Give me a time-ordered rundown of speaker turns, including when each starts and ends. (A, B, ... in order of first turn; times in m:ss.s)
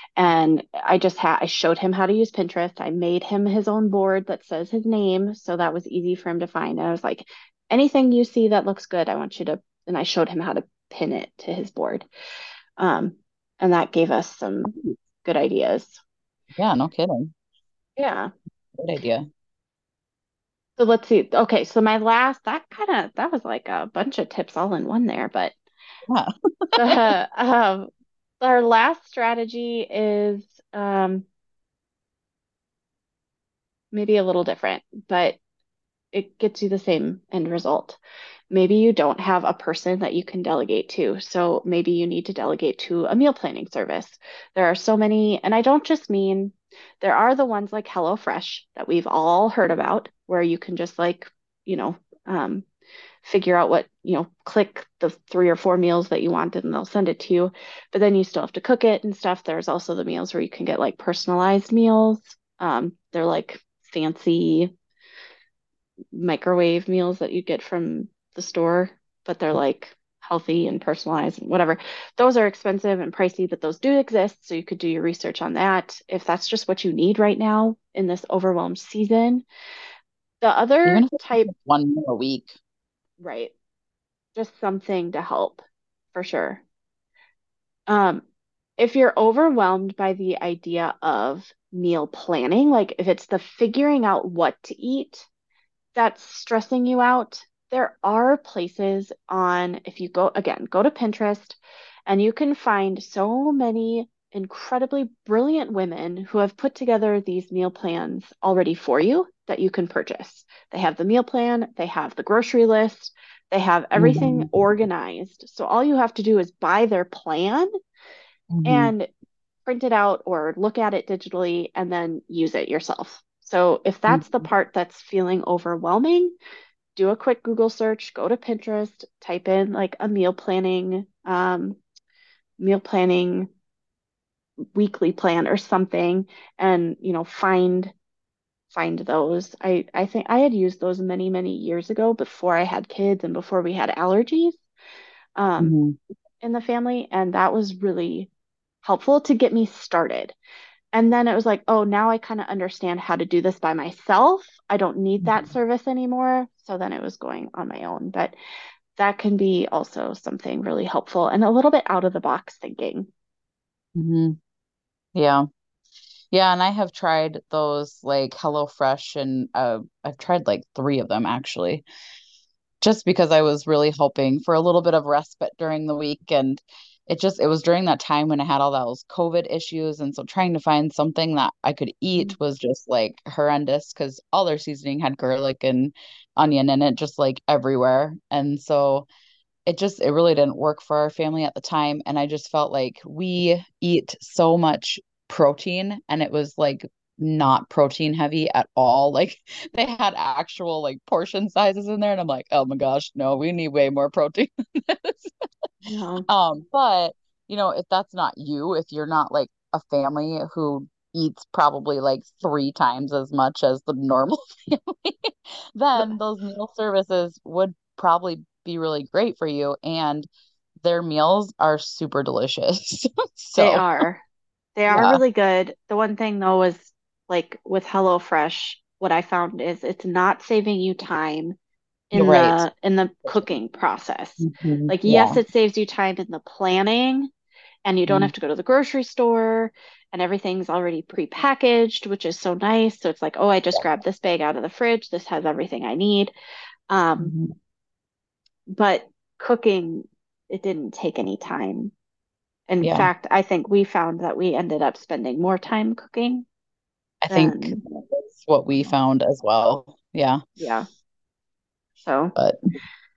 0:00.2-0:12.0 A
0:12.8-0:14.7 A
0:15.2-0:16.0 A
0:16.5-0:17.3 B
0:18.0-0:18.3 A
0:18.8-0:19.2 B
0:20.8-0:25.5 A
0:26.1-0:27.0 B
0:26.7-0:27.9 A
0:28.4-0:31.2 A
0:33.9-0:35.4 A
0:36.1-0:38.0 A
0:38.5-0:52.6 A
0:53.2-1:04.7 A
1:06.1-1:19.4 A
1:20.4-1:21.5 A
1:20.8-1:22.5 B
1:23.2-1:23.5 A
1:24.3-1:25.6 A
1:26.1-1:26.6 A
1:27.9-1:28.2 A
1:28.8-1:35.3 A
1:35.9-1:57.7 A
1:54.0-1:54.5 B
1:58.5-1:58.9 B
1:58.6-1:59.1 A
1:59.6-2:06.3 A
2:04.1-2:04.5 B
2:07.0-2:11.8 A
2:12.6-2:13.5 A
2:14.7-2:17.9 A
2:18.7-2:24.6 A
2:25.4-2:25.8 A
2:25.6-2:26.0 B
2:26.4-2:28.3 A
2:28.8-2:30.3 A
2:30.9-2:38.3 A
2:35.2-2:35.5 B
2:39.0-2:43.1 A
2:43.9-2:44.4 B
2:45.1-2:45.4 B
2:46.3-2:51.8 B
2:52.8-3:09.1 B
3:09.6-3:25.3 B
3:25.8-3:26.3 A
3:26.3-3:40.3 B
3:40.8-3:43.8 B
3:43.6-3:44.2 A
3:44.8-3:51.5 A
3:44.9-3:45.2 B
3:52.1-3:57.3 A
3:52.1-3:52.6 B
3:54.4-3:55.4 B
3:57.8-4:06.3 A
3:58.1-3:58.3 B
4:06.9-4:07.3 A
4:07.2-4:07.5 B
4:08.7-4:11.9 A
4:12.7-4:16.4 A
4:12.8-4:13.1 B
4:17.2-4:20.4 B
4:17.3-4:17.8 A
4:20.6-4:20.9 A
4:22.0-4:22.3 A